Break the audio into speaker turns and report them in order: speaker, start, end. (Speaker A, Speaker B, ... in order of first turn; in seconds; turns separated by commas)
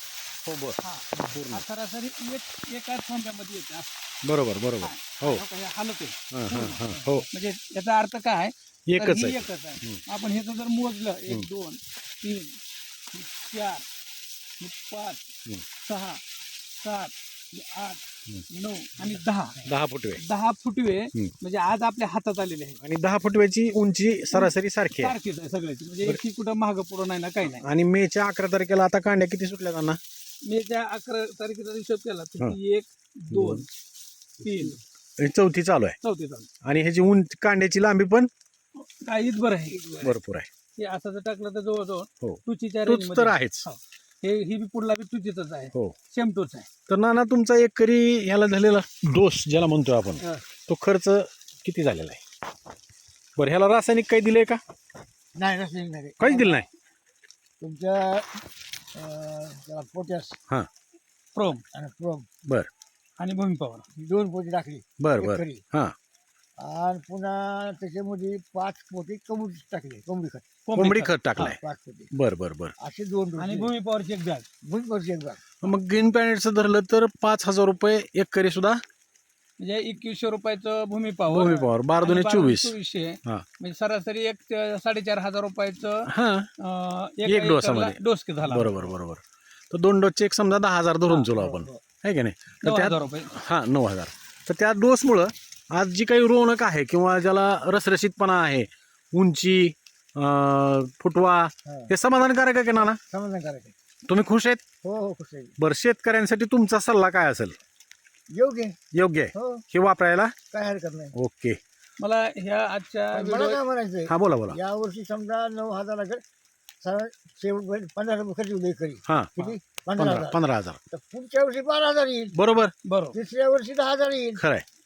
Speaker A: 0.4-1.6, Speaker B: 0.8-3.9, Speaker A: 4.2-5.4, Speaker B: 4.8-12.6, Speaker A: 6.3-7.3, Speaker C: 6.9-7.2, Speaker A: 8.9-10.0, Speaker B: 13.1-13.8, Speaker B: 14.6-15.2, Speaker B: 15.8-16.2, Speaker B: 16.8-19.7, Speaker A: 19.6-20.2, Speaker B: 20.2-22.8, Speaker A: 22.8-25.1, Speaker B: 24.3-27.6, Speaker A: 27.5-30.0, Speaker B: 30.4-33.7, Speaker A: 33.3-33.6, Speaker B: 34.4-34.8, Speaker A: 35.2-36.0, Speaker B: 36.0-36.5, Speaker A: 36.6-38.3, Speaker B: 38.8-40.1, Speaker A: 40.0-40.5, Speaker B: 40.8-46.7, Speaker A: 42.2-43.7, Speaker A: 46.9-52.2, Speaker A: 53.4-54.6, Speaker C: 55.4-56.6, Speaker A: 56.2-56.7, Speaker C: 57.6-58.4, Speaker C: 58.9-60.4, Speaker B: 61.3-61.6, Speaker C: 61.7-62.3, Speaker B: 63.2-63.8, Speaker C: 64.0-65.6, Speaker A: 65.0-65.9, Speaker C: 66.6-70.5, Speaker B: 70.7-71.5, Speaker A: 70.8-71.6, Speaker C: 71.4-72.1, Speaker A: 72.1-72.7, Speaker C: 72.8-73.7, Speaker B: 73.4-74.5, Speaker C: 74.6-75.4, Speaker A: 75.6-78.8, Speaker B: 79.6-88.9, Speaker A: 81.3-82.7, Speaker A: 86.0-86.5, Speaker A: 87.2-103.0, Speaker C: 91.3-91.8, Speaker B: 92.6-93.3, Speaker C: 101.7-101.9, Speaker C: 102.8-103.7, Speaker A: 104.1-104.6, Speaker C: 104.8-105.5, Speaker A: 105.6-107.5, Speaker C: 108.3-108.8, Speaker A: 108.9-110.3, Speaker C: 109.3-109.7, Speaker C: 110.5-111.1, Speaker A: 111.1-111.6, Speaker B: 112.0-113.6, Speaker C: 113.1-116.2, Speaker A: 114.1-114.6, Speaker C: 116.8-122.4, Speaker A: 119.0-120.8, Speaker A: 122.3-122.7, Speaker B: 122.8-123.2, Speaker C: 123.1-124.4, Speaker A: 124.4-124.6